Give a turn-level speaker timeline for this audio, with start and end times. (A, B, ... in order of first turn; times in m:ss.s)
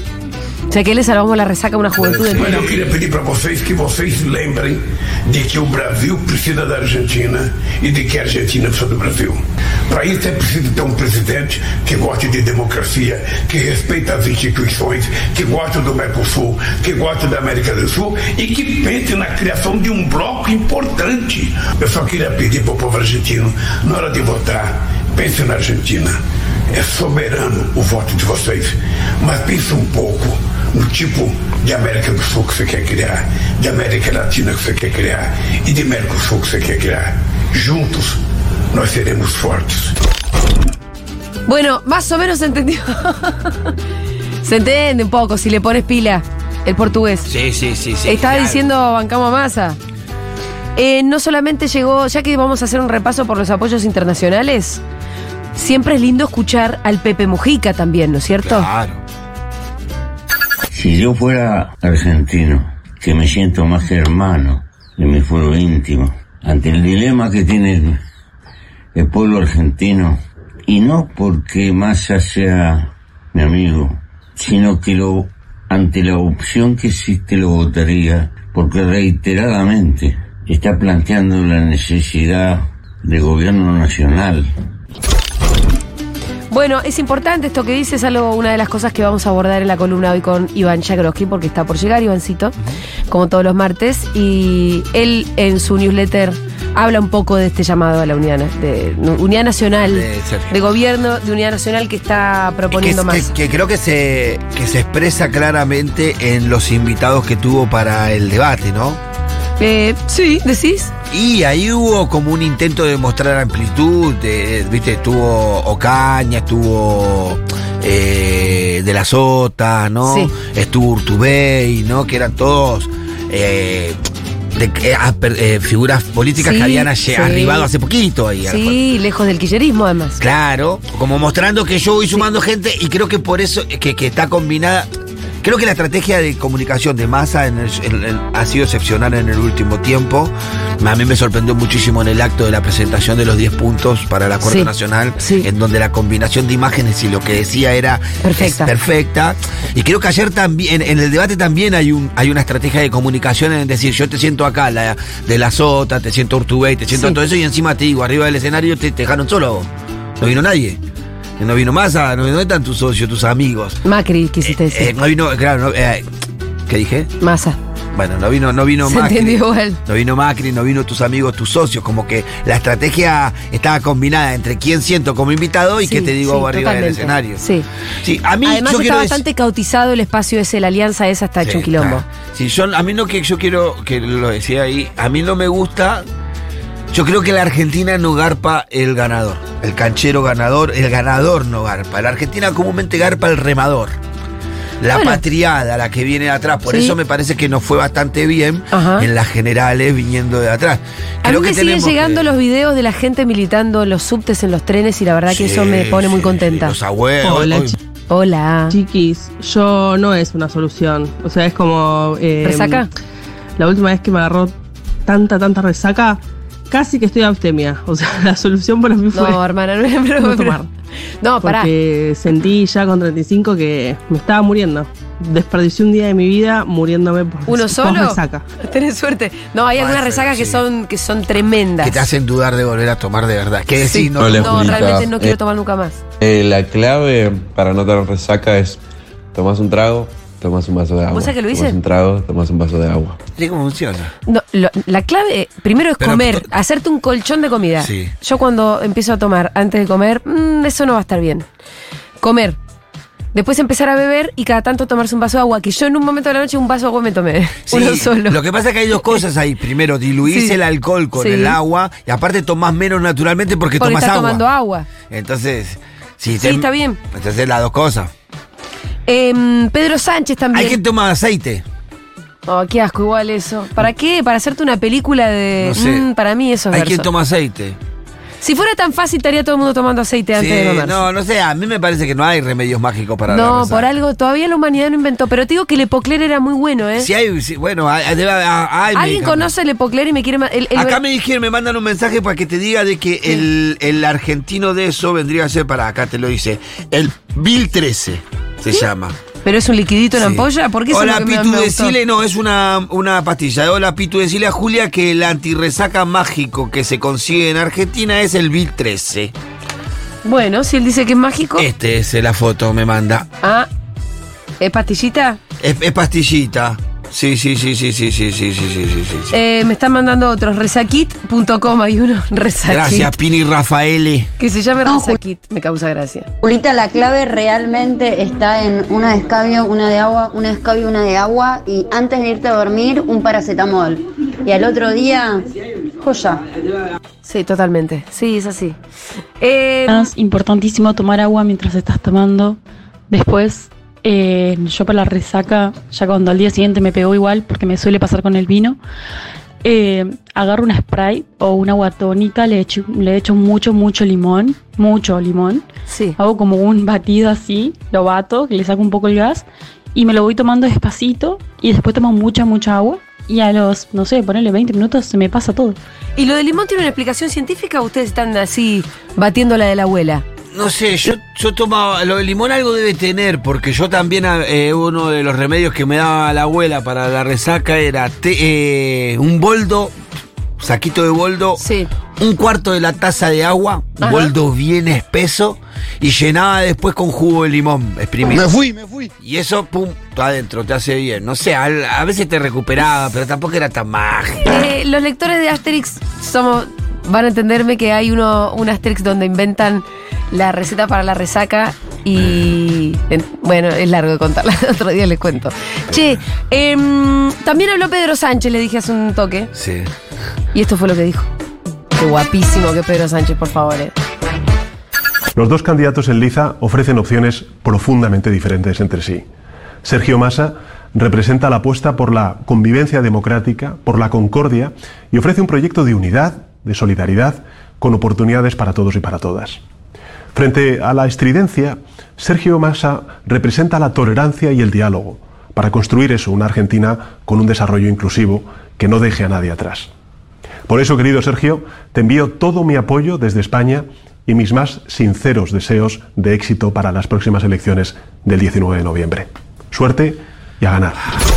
0:00.7-0:02.7 A
0:02.1-0:02.4 B
0:02.4-0:26.2 C
0:26.7-0:38.2 C
0:38.7-0:40.0 C
0:41.5-0:43.7 A
0:44.4-0:47.3 A
0:47.3-0:48.6 B
0:48.0-0:49.8 A
0:50.8-0:54.8 A
0:55.6-0:58.7 A
0:58.4-0:59.0 B
1:00.7-1:08.0 D
1:09.0-1:24.5 D
1:26.5-1:32.6 A
1:33.1-1:43.3 A
1:39.7-1:40.6 B
1:42.7-1:49.0 B
1:49.6-1:50.9 A
1:51.1-2:04.0 B
2:00.0-2:00.3 A
2:04.6-2:08.8 B
2:06.4-2:07.7 A
2:08.4-2:10.2 A
2:10.2-2:14.9 B
2:15.4-2:39.7 B
2:24.4-2:25.5 A
2:28.2-2:28.7 A
2:36.9-2:37.2 A
2:40.2-2:40.8 B
2:41.4-2:43.8 B
2:43.8-2:44.9 A
2:44.4-2:46.0 B
2:46.7-2:47.1 B
2:47.2-2:47.6 A
2:47.9-2:57.4 B
2:48.9-2:49.8 A
2:55.8-2:57.7 A
2:58.0-2:59.2 B
2:58.4-3:02.1 A
3:01.4-3:06.1 B
3:06.9-3:14.0 B
3:14.8-3:22.3 B
3:14.9-3:15.2 A
3:16.7-3:17.0 A
3:18.7-3:19.1 A
3:21.2-3:26.8 A
3:25.3-3:27.8 B
3:27.2-3:27.8 E
3:28.1-3:28.8 A
3:28.7-3:32.9 E
3:32.4-3:32.9 A
3:33.6-3:39.4 E
3:39.1-3:40.7 A
3:40.2-3:40.6 E
3:41.2-3:41.7 A
3:41.4-3:48.4 E
3:47.5-3:52.1 A
3:49.8-3:50.6 B
3:51.8-3:54.7 B
3:53.8-3:56.0 A
3:54.2-3:55.4 F
3:56.2-3:58.8 F
3:59.3-4:03.2 F
4:01.1-4:01.8 A
4:03.4-4:04.1 B
4:04.3-4:11.5 A
4:06.0-4:06.4 B
4:07.8-4:08.1 B
4:12.2-4:12.6 A
4:13.3-4:18.4 A
4:17.7-4:24.4 B
4:20.3-4:20.6 A
4:21.1-4:21.6 A
4:23.8-4:24.9 A
4:25.1-4:28.1 B
4:26.4-4:27.0 A
4:29.1-4:30.8 A
4:30.5-4:31.6 B
4:32.5-4:37.1 A
4:35.6-4:36.1 B
4:36.7-4:37.8 B
4:38.4-4:41.1 A
4:40.4-4:43.9 B
4:43.3-4:47.1 A
4:47.0-4:49.5 B
4:48.9-4:51.0 A
4:50.7-4:59.2 B
4:59.4-5:02.0 A
5:00.2-5:09.3 B
5:10.2-5:11.7 A
5:11.6-5:13.3 B
5:13.4-5:13.7 A
5:14.6-5:15.4 A
5:15.6-5:19.4 B
5:19.3-5:23.2 A
5:22.7-5:24.3 B
5:24.4-5:26.3 A
5:26.4-5:34.0 G
5:34.5-5:35.4 G
5:36.1-5:36.4 G
5:37.2-5:38.8 A
5:39.4-5:40.1 A
5:39.9-5:42.6 H
5:43.1-5:48.8 H
5:49.6-5:55.6 H
5:55.9-5:56.2 A
5:56.2-6:05.8 H
6:06.2-6:10.2 A
6:10.5-6:19.9 B
6:20.6-6:21.6 B
6:21.6-6:21.9 A
6:22.2-6:34.4 B
6:24.0-6:24.3 A
6:34.4-6:49.5 A
6:49.5-6:49.9 B
6:50.5-6:51.3 A
6:52.0-6:53.9 A
6:55.4-6:59.2 I
6:59.8-7:09.6 I
7:10.4-7:19.9 I
7:20.7-7:31.2 I